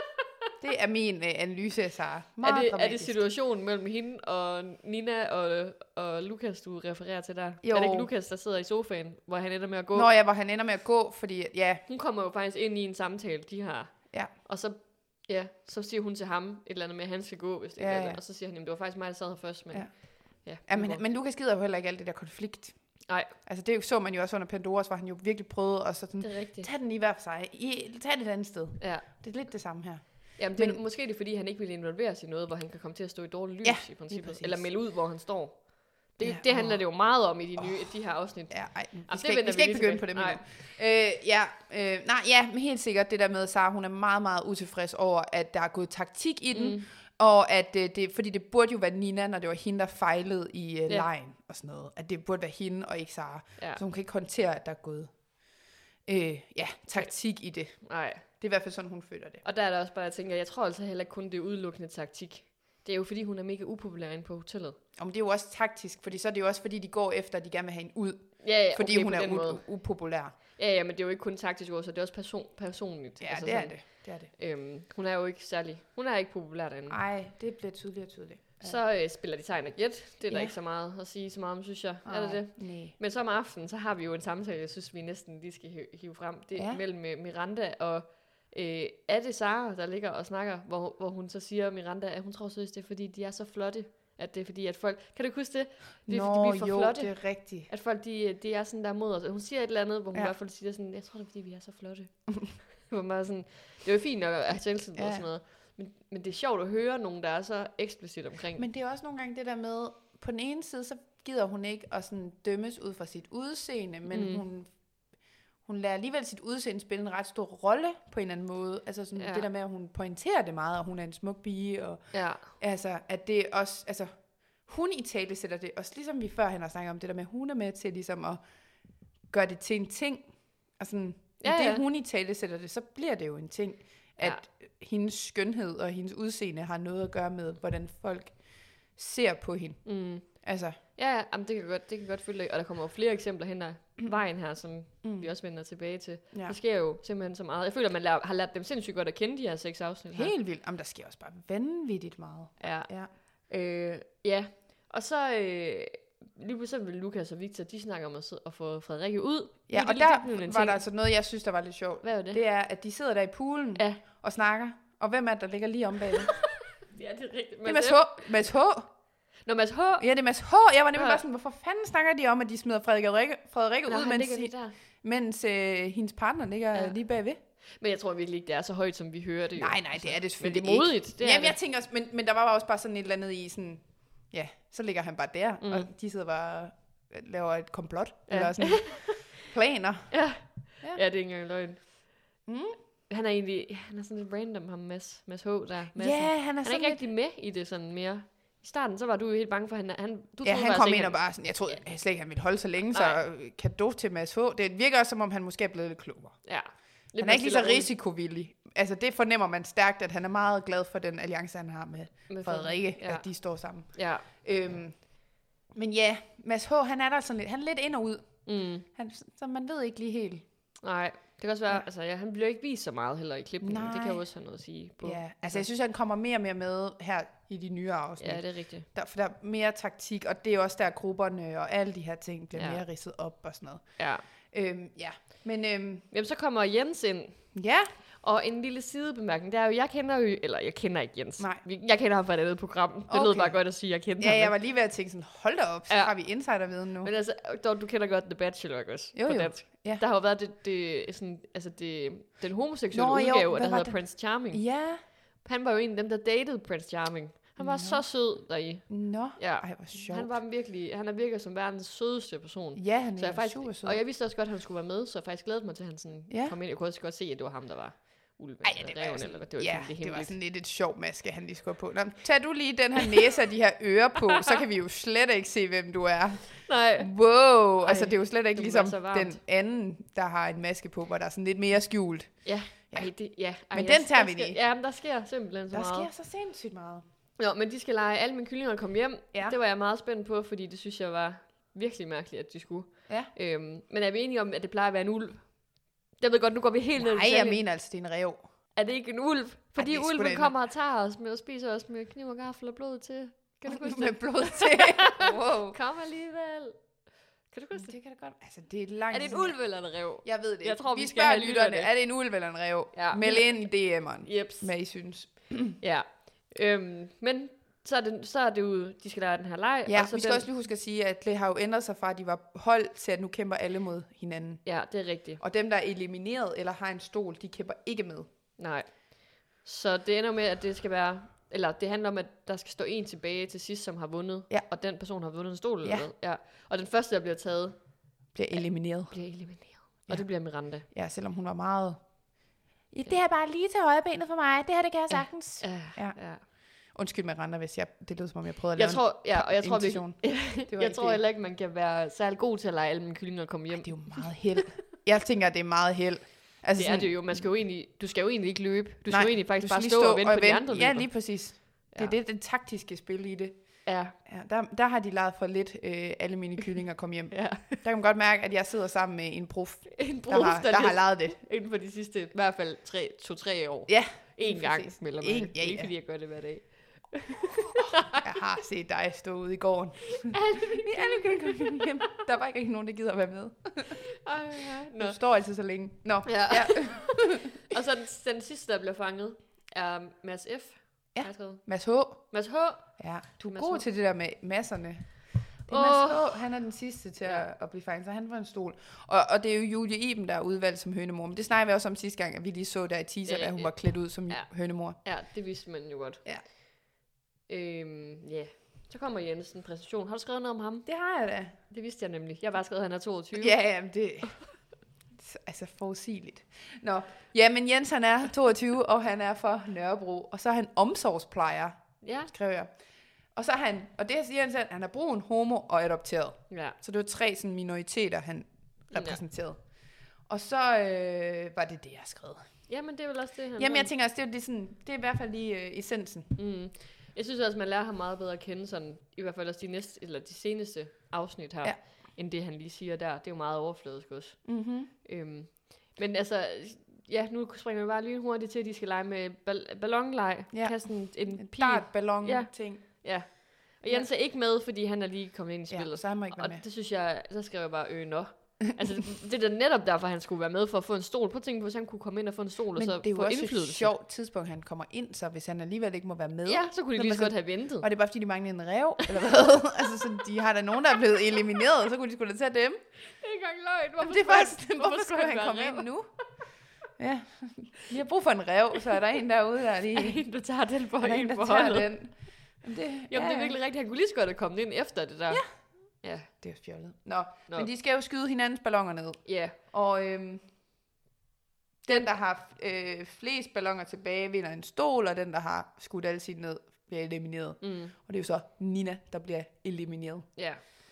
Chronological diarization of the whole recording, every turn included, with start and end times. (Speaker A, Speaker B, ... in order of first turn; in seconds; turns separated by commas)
Speaker A: 0.6-3.2, Speaker B: 2.4-10.1, Speaker A: 7.6-8.1, Speaker A: 9.9-11.8, Speaker B: 11.9-21.0, Speaker A: 17.8-18.2, Speaker A: 19.7-30.8, Speaker B: 23.1-23.3, Speaker B: 26.2-26.7, Speaker B: 28.8-29.1, Speaker B: 30.4-40.4, Speaker A: 33.6-34.7, Speaker A: 36.2-36.8, Speaker A: 38.5-55.1, Speaker B: 46.5-46.9, Speaker A: 56.0-59.4, Speaker B: 57.8-58.2, Speaker B: 59.4-64.8, Speaker A: 65.0-70.3, Speaker B: 68.4-69.7, Speaker B: 70.5-77.0, Speaker A: 73.2-74.3, Speaker A: 76.9-78.8, Speaker B: 78.6-108.7, Speaker A: 80.3-80.5, Speaker A: 82.0-83.0, Speaker A: 86.6-86.8, Speaker A: 96.1-97.7, Speaker A: 105.0-105.3, Speaker A: 108.6-114.7, Speaker B: 114.1-114.4, Speaker A: 115.7-124.1, Speaker B: 119.2-119.5, Speaker B: 122.1-122.5, Speaker A: 124.6-128.4, Speaker A: 129.3-140.8, Speaker B: 131.4-131.8, Speaker B: 139.8-150.3, Speaker A: 145.0-145.3, Speaker A: 146.3-146.6, Speaker A: 150.1-153.1, Speaker B: 152.6-160.8, Speaker A: 159.7-166.4, Speaker B: 162.0-162.4, Speaker B: 166.8-168.3, Speaker A: 167.7-168.9, Speaker B: 169.4-170.1, Speaker A: 170.0-177.4, Speaker B: 170.9-171.2, Speaker B: 173.9-174.7, Speaker B: 177.8-181.6, Speaker A: 179.6-190.2, Speaker B: 185.6-185.9, Speaker B: 188.3-189.4, Speaker B: 190.1-192.2, Speaker A: 192.5-192.8, Speaker B: 193.1-201.8, Speaker A: 196.0-197.0, Speaker A: 200.4-206.4, Speaker B: 202.9-203.2, Speaker B: 206.4-207.9, Speaker A: 207.2-215.1, Speaker B: 212.3-213.3, Speaker B: 213.9-214.3, Speaker A: 215.7-220.4, Speaker B: 218.5-218.9, Speaker B: 220.8-225.7, Speaker A: 223.6-224.2, Speaker A: 225.0-233.9, Speaker B: 228.2-228.9, Speaker B: 232.6-232.8, Speaker B: 234.0-234.2, Speaker A: 234.5-236.1, Speaker B: 236.1-237.4, Speaker A: 237.5-237.9, Speaker B: 238.2-244.6, Speaker A: 243.1-243.7, Speaker A: 244.2-247.1, Speaker B: 245.9-246.2, Speaker B: 247.0-254.7, Speaker A: 249.2-250.0, Speaker A: 252.9-255.0, Speaker B: 255.4-270.3, Speaker A: 257.6-258.1, Speaker A: 258.9-260.4, Speaker A: 262.8-264.0, Speaker A: 266.3-266.6, Speaker A: 268.6-282.4, Speaker B: 276.6-277.1, Speaker B: 277.8-279.4, Speaker B: 282.4-286.1, Speaker A: 283.7-284.6, Speaker A: 285.7-287.0, Speaker B: 287.4-295.6, Speaker B: 296.2-297.6, Speaker A: 297.0-298.4, Speaker B: 298.8-306.9, Speaker A: 299.8-300.5, Speaker A: 303.7-305.8, Speaker B: 307.5-307.9, Speaker A: 307.8-315.8, Speaker B: 309.1-311.9, Speaker B: 312.9-314.7, Speaker B: 315.8-320.5, Speaker A: 319.9-324.6, Speaker B: 324.6-325.4, Speaker A: 325.4-328.3, Speaker B: 328.6-340.9, Speaker A: 335.8-336.1, Speaker A: 338.3-339.2, Speaker A: 340.1-342.1, Speaker A: 342.9-346.2, Speaker B: 345.1-346.4, Speaker A: 346.9-351.2, Speaker B: 348.8-354.7, Speaker A: 353.8-357.5, Speaker B: 356.8-361.1, Speaker A: 359.1-371.4, Speaker B: 363.9-364.1, Speaker B: 367.3-367.8, Speaker B: 370.0-378.2, Speaker A: 373.9-375.9, Speaker A: 377.7-384.0, Speaker B: 380.2-381.9, Speaker B: 384.1-385.2, Speaker A: 385.0-387.5, Speaker B: 386.3-391.7, Speaker A: 391.1-392.3, Speaker B: 392.2-393.0, Speaker A: 393.0-405.0, Speaker B: 393.5-393.9, Speaker B: 395.7-396.4, Speaker B: 403.3-403.8, Speaker B: 404.3-406.3, Speaker B: 407.5-410.9, Speaker A: 410.9-411.5, Speaker B: 411.7-413.6, Speaker A: 413.4-414.5, Speaker A: 415.1-422.7, Speaker B: 422.0-422.3, Speaker A: 423.4-429.6, Speaker B: 426.5-426.8, Speaker B: 428.9-429.2, Speaker A: 430.3-432.4, Speaker B: 432.7-433.9, Speaker A: 433.6-436.3, Speaker B: 436.4-463.9, Speaker A: 444.4-444.9, Speaker A: 450.5-453.1, Speaker A: 455.7-456.6, Speaker A: 462.8-472.8, Speaker B: 466.5-467.9, Speaker B: 473.2-475.9, Speaker A: 474.0-476.1, Speaker A: 477.0-480.2, Speaker B: 479.9-481.9, Speaker A: 481.0-483.6, Speaker B: 483.1-485.4, Speaker B: 486.0-486.3, Speaker A: 486.4-490.4, Speaker B: 489.3-489.6, Speaker A: 491.9-500.3, Speaker B: 497.6-497.9